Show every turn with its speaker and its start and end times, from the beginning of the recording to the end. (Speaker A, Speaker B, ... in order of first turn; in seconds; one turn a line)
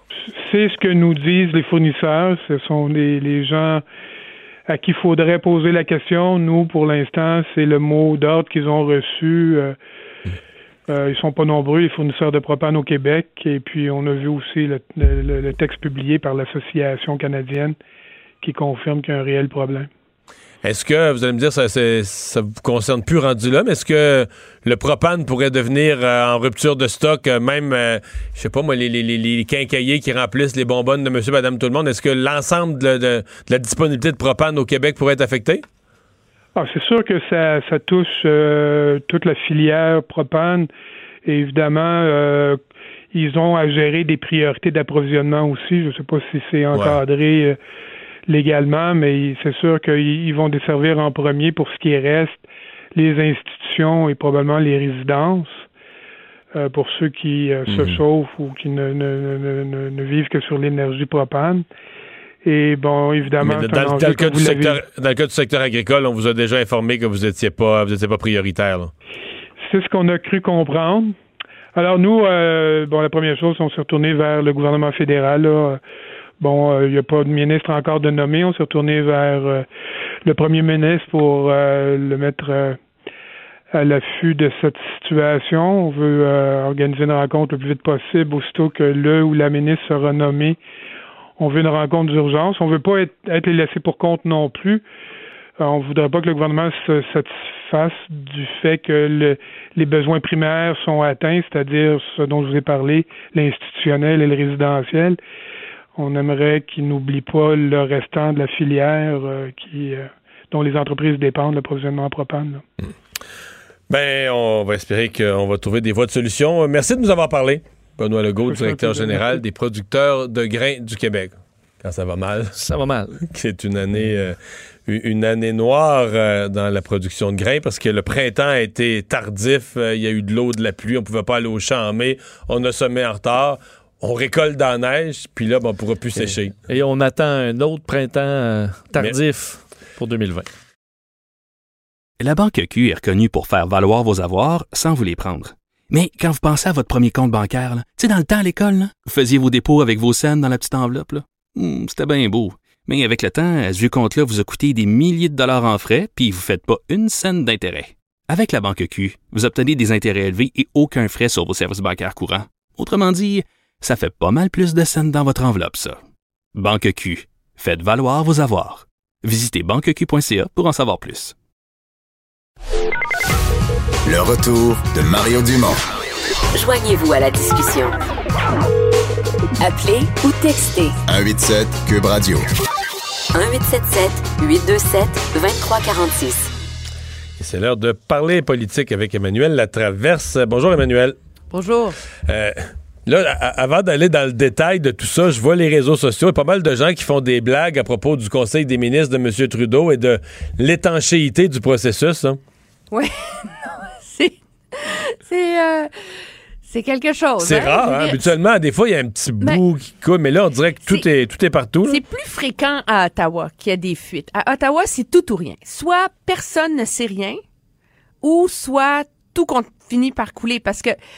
Speaker A: 0.4-3.8
Speaker A: 4.7-9.8
Speaker A: 10.9-17.8
Speaker A: 18.4-19.9
Speaker B: 20.6-35.6
Speaker A: 36.5-40.7
Speaker A: 41.2-42.6
Speaker A: 43.1-47.6
Speaker B: 46.7-47.0
Speaker A: 48.3-52.4
Speaker A: 53.0-55.7
Speaker A: 56.5-61.6
Speaker B: 57.7-58.0
Speaker A: 62.4-64.8
Speaker B: 63.4-68.9
Speaker A: 69.6-71.2
Speaker A: 71.7-75.8
Speaker A: 76.4-79.7
Speaker A: 80.2-82.8
Speaker A: 83.7-90.6
Speaker A: 91.4-94.8
Speaker A: 95.6-105.2
Speaker A: 106.0-112.6
Speaker B: 113.9-122.5
Speaker A: 118.5-119.2
Speaker C: 122.5-123.2
Speaker B: 123.2-136.5
Speaker C: 136.2-140.5
Speaker D: 142.2-166.0
Speaker D: 166.5-171.3
Speaker E: 174.1-175.8
Speaker F: 176.5-178.1
Speaker F: 179.6-180.9
Speaker E: 181.1-182.4
Speaker F: 183.3-186.5
Speaker B: 187.4-191.2
Speaker G: 191.5-191.9
Speaker B: 192.3-202.4
Speaker G: 202.9-205.9
Speaker G: 206.7-208.3
Speaker B: 207.4-212.0
Speaker G: 211.8-217.4
Speaker G: 218.2-221.0